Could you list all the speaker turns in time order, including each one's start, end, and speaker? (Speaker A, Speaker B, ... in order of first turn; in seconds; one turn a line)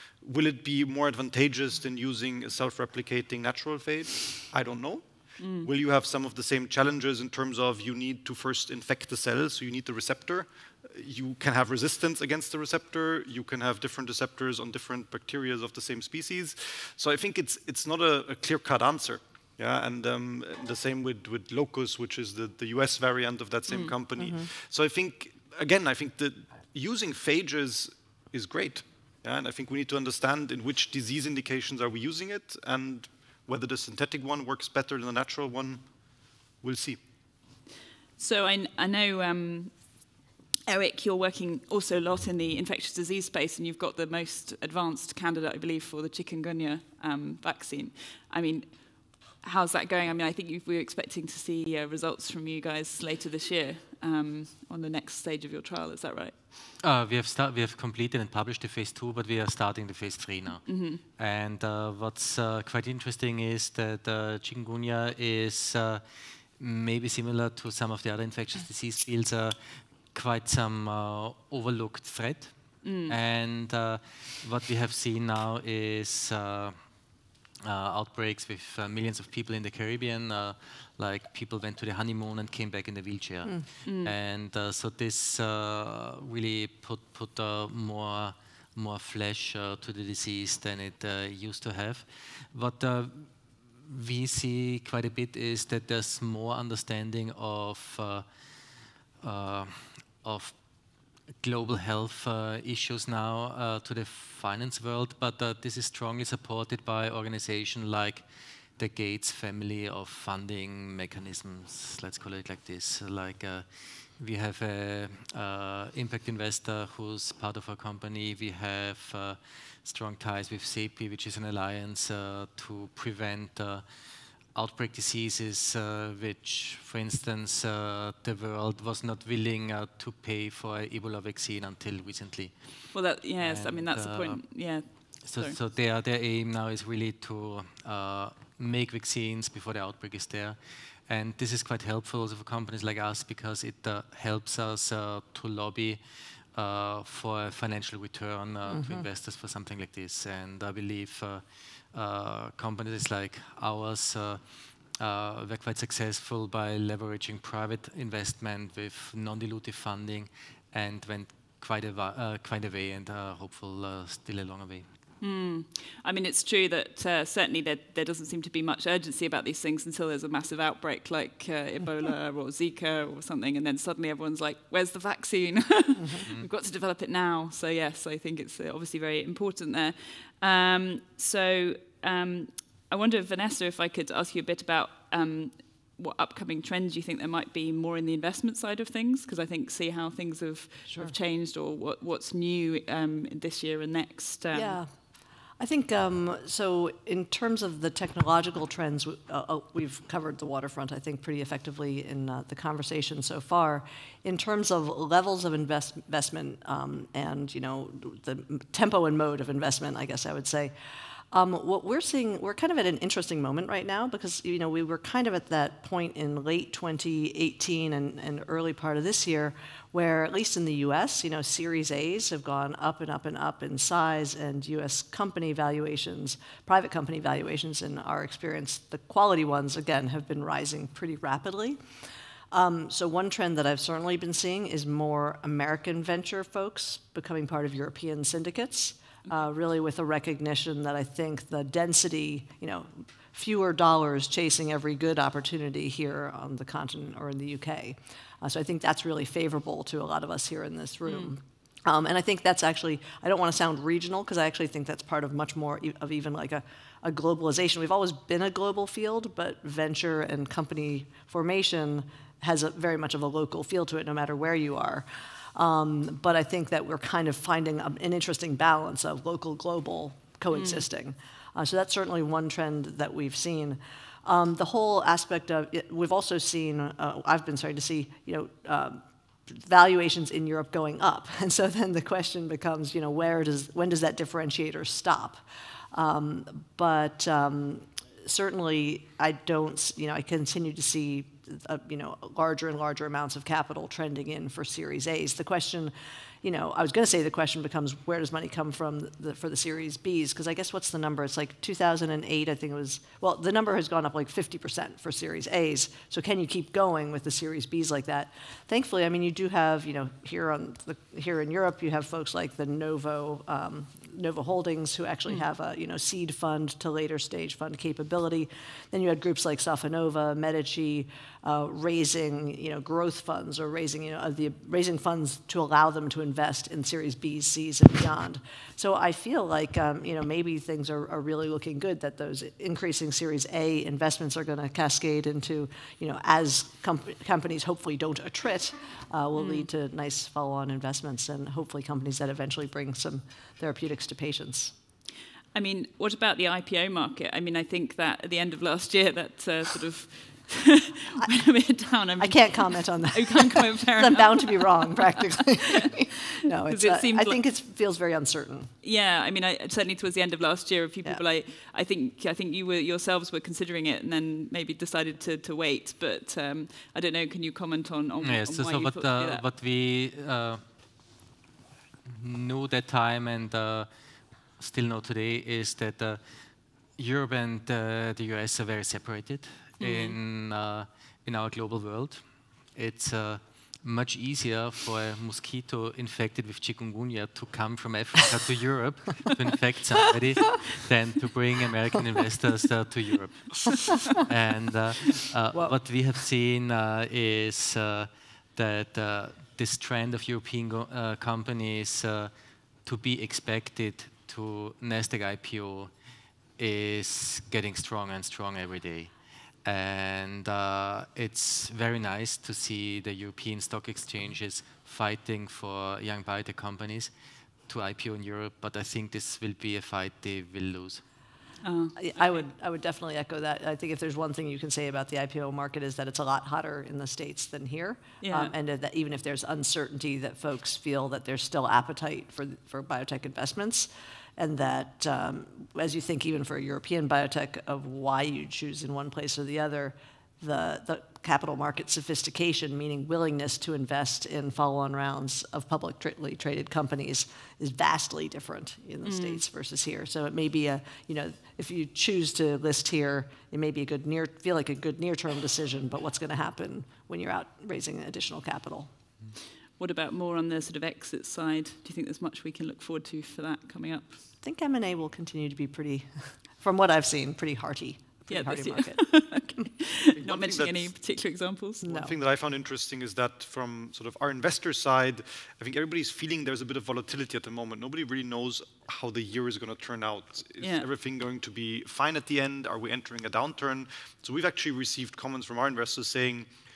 Speaker A: 0.2-35.9
Speaker B: 5.4-5.7
Speaker B: 23.7-23.9
Speaker C: 24.2-24.5
Speaker A: 36.6-37.0
Speaker B: 38.2-39.8
Speaker B: 40.7-56.4
Speaker D: 56.8-66.0
Speaker B: 60.7-61.0
Speaker D: 66.6-76.8
Speaker B: 72.8-73.2
Speaker D: 77.6-98.3
Speaker B: 83.8-84.1
Speaker D: 99.2-100.6
Speaker D: 101.4-108.2
Speaker D: 108.8-123.9
Speaker D: 124.5-164.9
Speaker B: 132.9-135.6
Speaker C: 148.7-149.1
Speaker B: 165.2-194.8
Speaker D: 176.2-176.5
Speaker C: 190.9-191.1
Speaker C: 194.5-194.9
Speaker C: 195.6-210.7
Speaker C: 211.3-231.8
Speaker C: 232.5-285.4
Speaker B: 251.1-251.3
Speaker B: 270.5-270.9
Speaker C: 285.9-344.8
Speaker B: 339.4-339.7
Speaker B: 345.5-355.9
Speaker C: 352.2-358.7
Speaker B: 356.6-357.4
Speaker B: 358.8-369.4
Speaker D: 368.2-370.6
Speaker D: 372.1-373.9
Speaker D: 374.6-376.2
Speaker D: 376.9-402.3
Speaker B: 379.8-380.2
Speaker D: 402.9-405.9
Speaker D: 406.6-409.1
Speaker D: 409.6-417.1
Speaker D: 417.7-421.0
Speaker B: 421.6-422.0
Speaker C: 422.0-458.9
Speaker B: 428.2-428.5
Speaker B: 449.0-449.4
Speaker B: 459.8-464.2
Speaker C: 464.4-469.0
Speaker B: 468.3-471.9
Speaker A: 470.1-470.9
Speaker C: 471.8-472.2
Speaker A: 471.9-486.5
Speaker B: 480.6-480.9